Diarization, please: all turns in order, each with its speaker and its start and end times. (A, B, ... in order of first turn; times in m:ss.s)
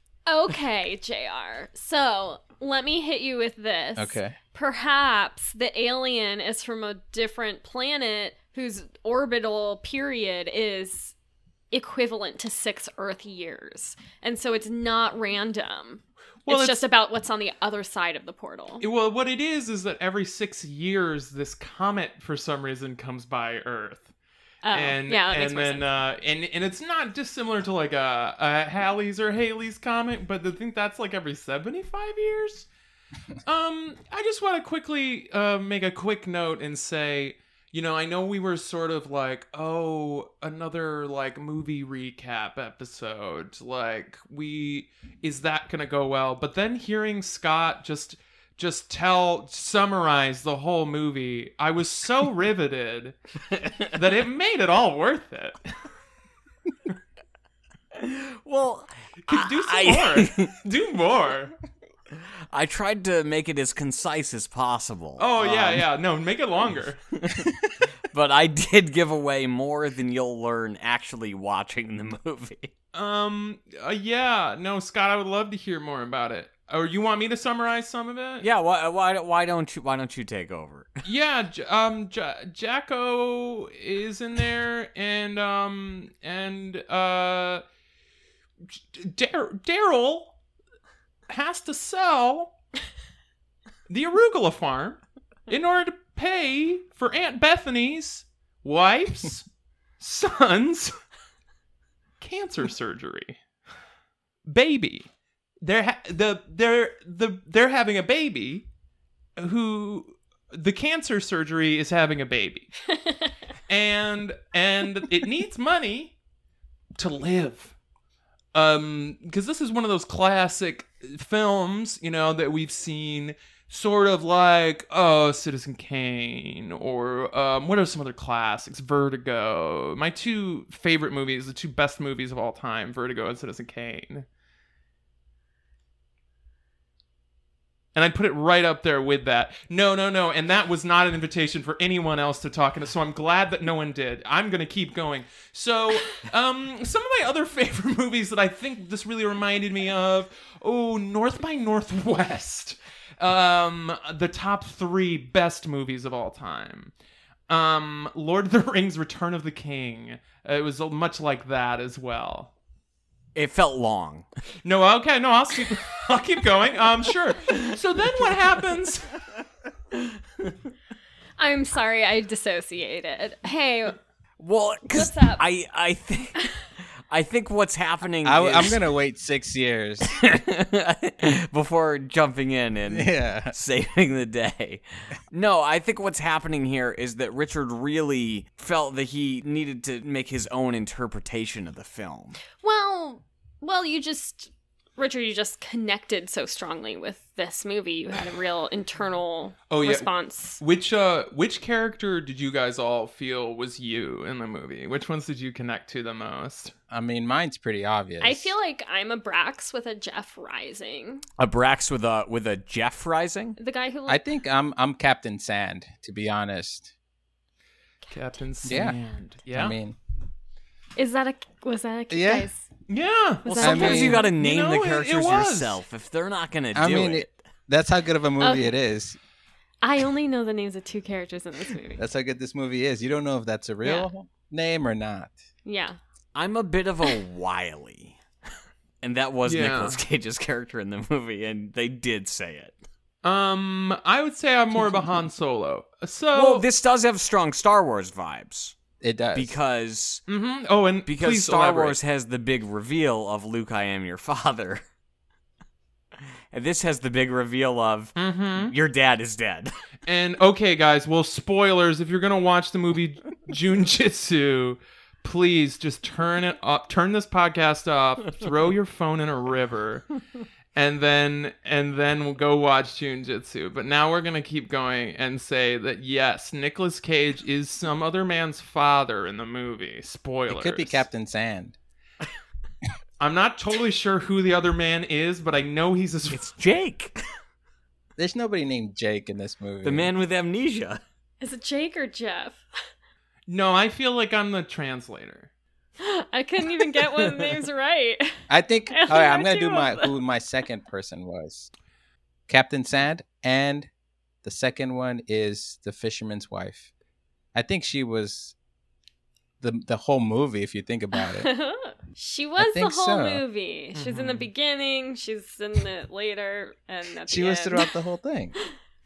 0:00.3-0:11.1 A
0:04.0-0:04.4 B
0:11.7-0:18.8 A
0:16.4-0:16.8 C
0:18.8-0:24.1 C
0:24.6-0:25.8 A
0:24.7-0:32.7 C
0:33.4-0:53.2 C
0:53.9-0:55.7 C
0:57.9-1:00.5 D
0:59.3-1:01.5 C
1:02.1-1:05.8 D
1:05.2-1:07.0 C
1:07.2-1:07.5 D
1:08.0-1:12.7 D
1:12.9-1:18.4 C
1:18.4-1:20.9 D
1:21.0-1:27.6 C
1:28.9-1:30.3 C
1:31.3-1:32.5 C
1:33.9-1:39.4 C
1:40.0-1:40.9 C
1:42.2-1:43.4 C
1:44.4-1:45.1 C
1:45.6-1:48.6 C
1:49.4-1:52.7 C
1:52.9-1:53.3 A
1:53.7-1:56.1 C
1:57.0-1:57.7 C
1:58.5-2:14.2 C
2:17.9-2:36.9 C
2:37.5-2:42.5 C
2:43.3-2:44.2 D
2:44.6-2:49.2 C
2:51.4-2:54.0 A
2:54.4-2:58.8 D
2:54.9-2:55.4 A
2:58.2-3:00.2 B
3:00.1-3:12.4 D
3:02.9-3:03.5 B
3:12.6-3:20.6 A
3:19.7-3:26.7 C
3:26.9-3:28.5 B
3:28.2-3:31.2 A
3:31.4-3:33.6 D
3:33.6-3:34.2 A
3:34.1-3:36.9 B
3:38.1-3:39.8 C
3:38.6-3:39.0 B
3:39.5-3:40.0 B
3:41.0-3:42.6 A
3:42.1-3:42.5 B
3:42.9-3:45.8 C
3:43.4-3:44.2 A
3:43.5-3:47.4 D
3:43.6-3:44.2 B
3:46.7-3:49.2 B
3:48.4-3:48.7 A
3:49.8-3:52.0 A
3:52.0-3:55.4 B
3:53.8-3:54.1 A
3:55.6-3:56.0 A
3:56.3-3:58.2 D
3:59.0-4:02.8 D
3:59.4-4:00.0 C
4:03.2-4:06.6 C
4:06.3-4:08.8 D
4:09.0-4:09.6 B
4:09.3-4:10.2 D
4:10.3-4:12.0 C
4:11.0-4:14.8 D
4:16.5-4:19.7 D
4:18.2-4:18.7 C
4:20.0-4:30.2 C
4:30.7-4:41.0 C
4:40.5-4:41.8 B
4:43.2-4:46.4 C
4:46.3-4:47.2 D
4:48.2-4:50.1 B
4:49.8-4:51.0 D
4:51.4-4:52.6 A
4:53.5-4:55.5 C
4:56.0-5:00.1 A
4:58.5-5:01.7 B
5:02.5-5:03.9 B
5:04.4-5:06.9 B
5:07.5-5:08.5 B
5:09.6-5:11.5 B
5:11.1-5:17.9 A
5:12.6-5:13.4 B
5:13.9-5:14.5 C
5:17.3-5:18.5 B